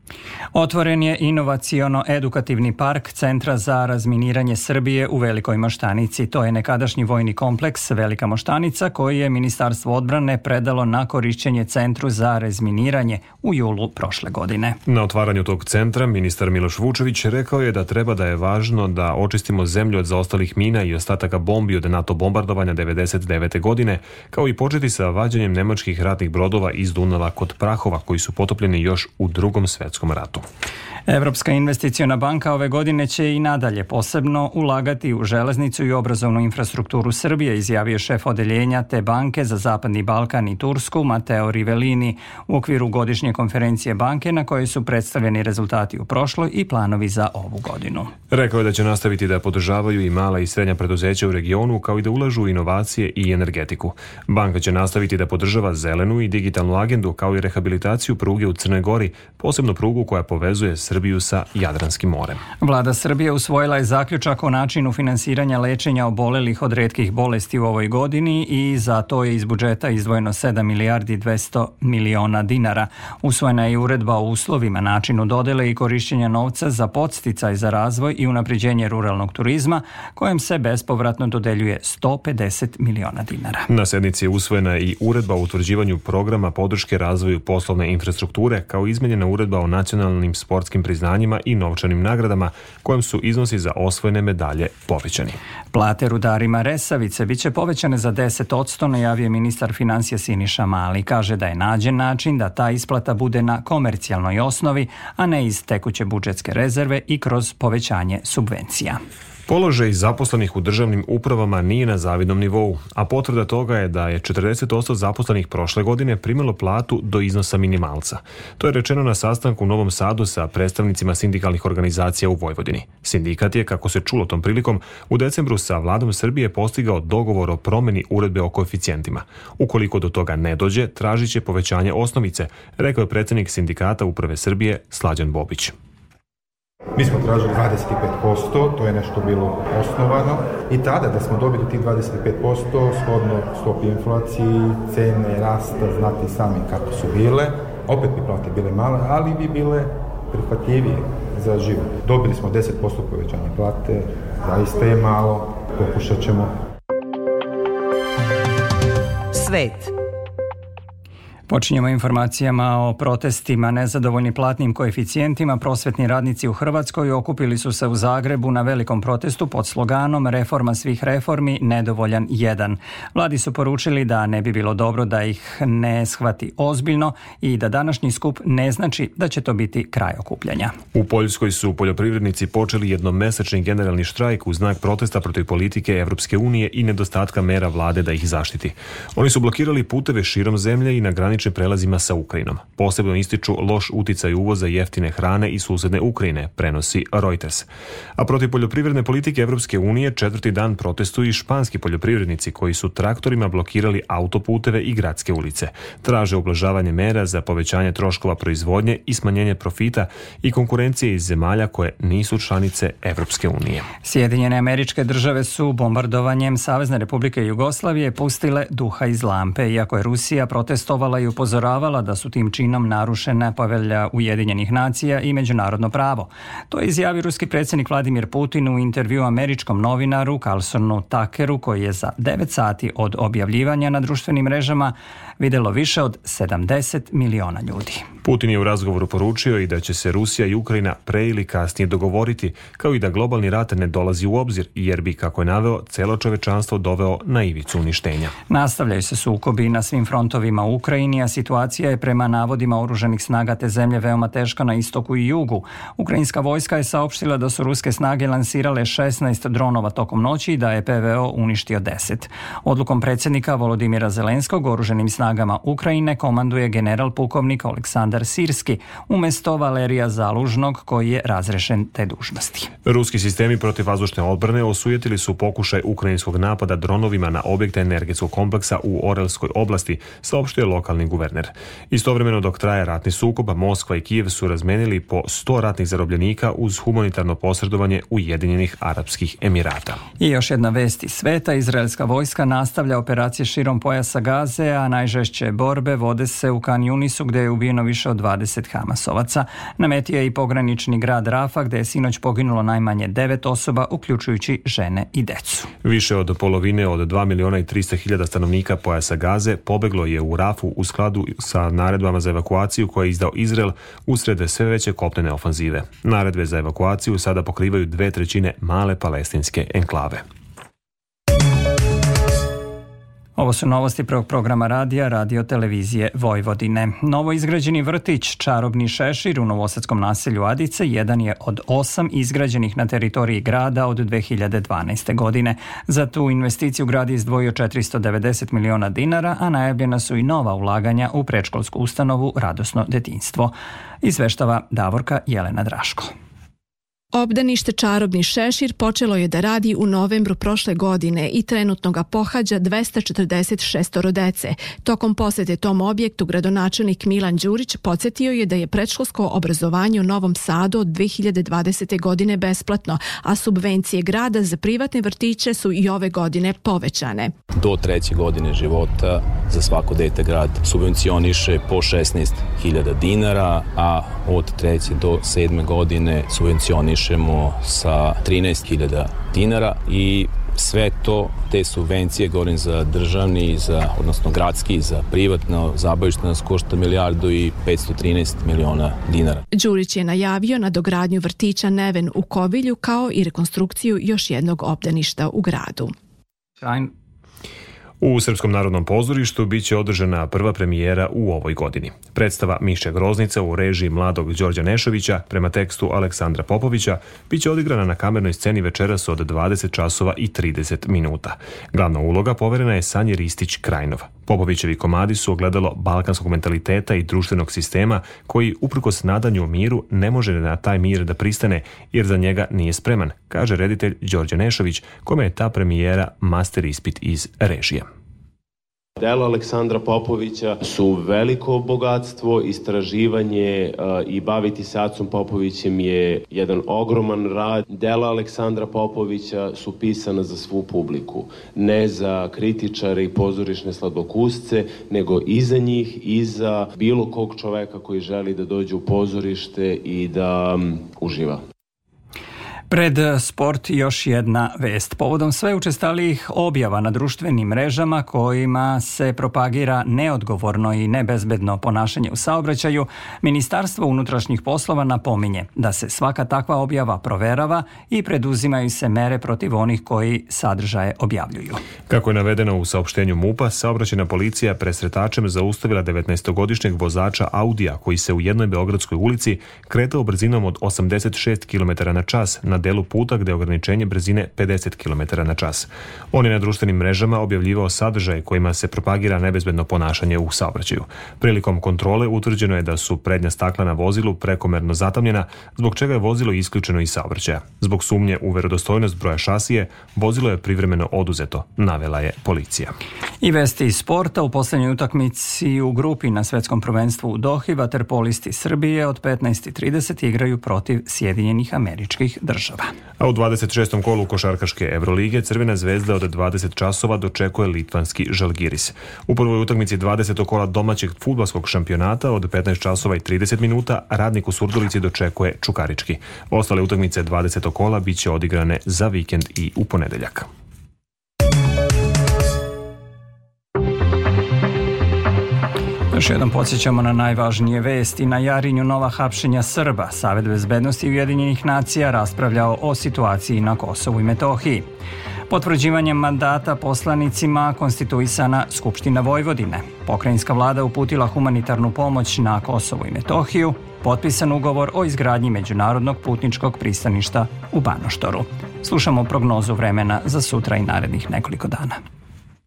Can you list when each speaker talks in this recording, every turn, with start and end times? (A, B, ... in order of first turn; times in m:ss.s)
0:00.5-0:14.8 A
0:14.8-0:30.4 B
0:31.1-0:48.1 A
0:48.3-1:02.4 B
1:02.6-1:23.7 A
1:23.7-1:35.4 B
1:35.7-1:49.0 A
1:49.5-2:15.7 B
2:17.0-2:36.5 C
2:41.5-3:00.7 A
3:00.9-3:33.9 B
3:34.0-3:58.0 A
3:58.2-4:08.3 B
4:08.5-4:32.7 A
4:32.8-4:50.0 B
4:50.2-5:05.7 A
5:05.8-5:20.2 B
5:23.4-5:46.1 A
5:47.1-6:07.3 D
6:07.6-6:29.4 E
6:29.5-6:35.9 D
6:36.6-6:36.9 A
6:38.0-7:07.8 B
7:09.0-7:31.4 F
7:32.7-7:51.6 A
7:51.9-8:22.7 B
8:23.2-8:32.7 A
8:33.0-8:50.3 B
8:55.9-9:04.6 A
9:05.3-9:21.8 A